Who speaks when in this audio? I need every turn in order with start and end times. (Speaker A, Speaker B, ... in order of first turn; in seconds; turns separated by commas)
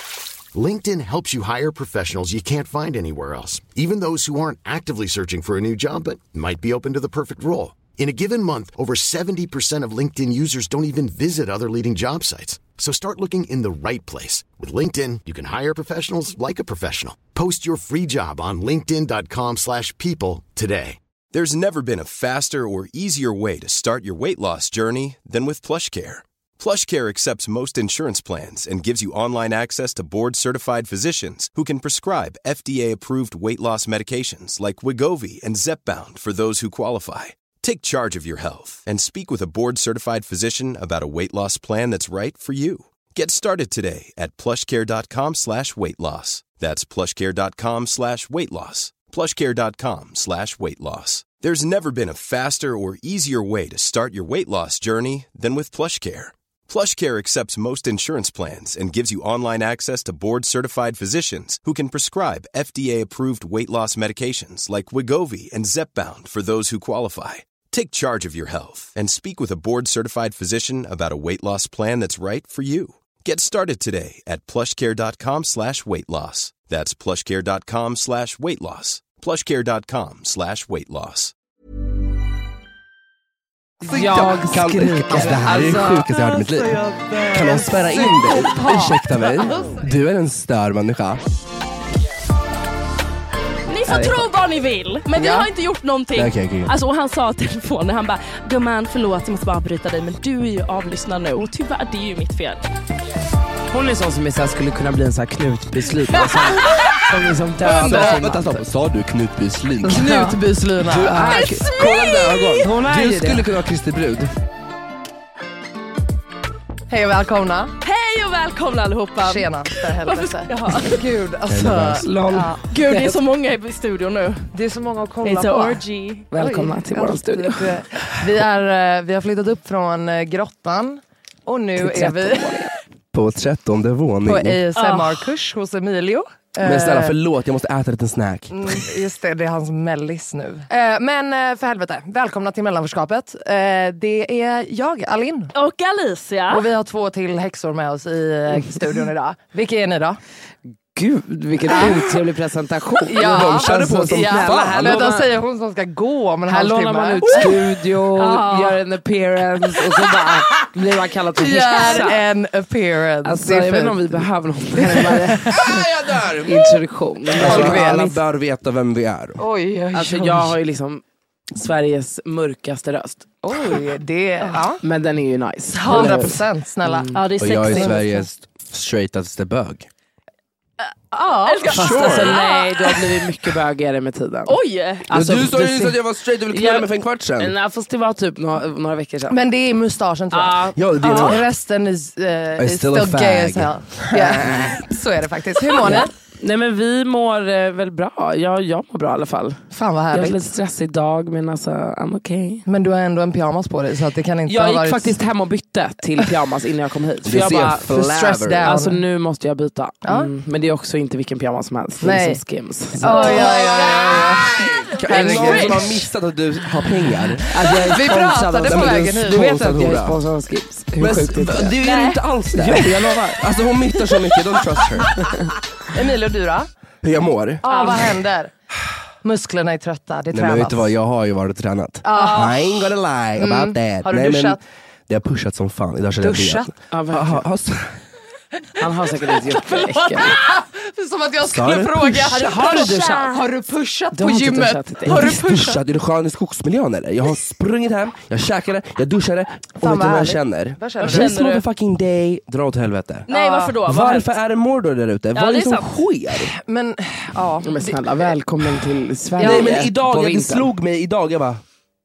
Speaker A: 0.5-21.0, Speaker B: 21.3-81.3, Speaker C: 83.8-91.2, Speaker D: 83.9-86.1, Speaker E: 87.5-89.8, Speaker F: 93.7-102.7, Speaker D: 93.9-94.2, Speaker E: 95.2-95.5, Speaker C: 96.1-96.7, Speaker D: 103.7-108.6, Speaker C: 107.6-114.3, Speaker E: 107.7-108.2, Speaker E: 109.9-111.5, Speaker D: 111.0-111.7, Speaker F: 111.4-112.6, Speaker D: 112.6-113.4, Speaker E: 116.9-117.7, Speaker F: 117.8-121.1, Speaker E: 119.2-122.6, Speaker C: 121.5-122.5, Speaker F: 122.6-124.5, Speaker D: 122.9-123.1, Speaker E: 124.5-125.8, Speaker F: 125.2-126.3, Speaker D: 126.3-127.7, Speaker E: 126.3-132.8, Speaker D: 131.8-132.3, Speaker C: 133.1-134.6, Speaker E: 134.2-137.2, Speaker F: 134.8-135.3, Speaker C: 136.6-138.8, Speaker E: 138.5-145.5, Speaker F: 145.5-146.7, Speaker E: 146.5-150.2, Speaker D: 150.9-155.2, Speaker E: 151.7-152.0, Speaker E: 153.1-157.4, Speaker C: 153.1-155.3, Speaker D: 156.5-162.2, Speaker C: 157.2-157.6, Speaker F: 158.2-158.8, Speaker E: 161.4-165.8, Speaker F: 161.8-162.2, Speaker D: 163.2-165.8, Speaker C: 165.5-166.8, Speaker D: 166.4-168.2, Speaker E: 167.3-168.2, Speaker C: 167.4-169.4, Speaker E: 169.4-170.6, Speaker D: 169.9-173.3, Speaker E: 173.4-174.8, Speaker D: 174.8-176.4, Speaker E: 175.8-178.0, Speaker D: 176.9-177.2, Speaker F: 177.1-178.2, Speaker C: 177.4-179.9, Speaker E: 181.1-181.9, Speaker F: 181.3-183.2, Speaker D: 181.7-186.0, Speaker C: 181.8-182.4, Speaker F: 184.5-185.1, Speaker C: 185.1-187.5, Speaker D: 186.5-189.4, Speaker E: 189.3-196.1, Speaker D: 190.3-190.8, Speaker C: 190.8-191.5, Speaker C: 192.6-194.8, Speaker D: 195.8-202.7, Speaker E: 199.7-200.4, Speaker E: 202.7-205.2, Speaker D: 204.5-213.4, Speaker C: 207.2-208.8, Speaker E: 207.9-209.0, Speaker E: 210.0-210.3, Speaker E: 212.0-212.4, Speaker E: 213.0-216.0, Speaker F: 213.1-214.3, Speaker C: 213.1-217.5, Speaker F: 215.0-215.8, Speaker D: 217.5-221.8, Speaker E: 217.7-219.6, Speaker C: 218.7-220.2, Speaker C: 221.0-225.3, Speaker F: 221.8-222.2, Speaker D: 222.5-223.4, Speaker E: 225.9-226.7, Speaker C: 227.0-227.6, Speaker E: 227.6-228.5, Speaker F: 227.7-228.1, Speaker E: 229.2-230.9, Speaker C: 230.3-238.0, Speaker E: 232.0-234.6, Speaker E: 236.2-236.8, Speaker D: 236.9-237.4, Speaker D: 238.8-240.4, Speaker E: 239.4-245.8, Speaker C: 241.4-242.3, Speaker D: 242.3-243.4, Speaker F: 242.3-243.3, Speaker D: 244.1-245.3, Speaker C: 245.1-253.3, Speaker E: 249.8-251.4, Speaker F: 251.0-251.7, Speaker F: 253.3-254.3, Speaker E: 253.3-253.8, Speaker C: 253.8-256.5, Speaker F: 255.3-255.9, Speaker E: 256.4-258.3, Speaker D: 257.6-260.7, Speaker E: 259.4-260.0, Speaker C: 259.4-261.6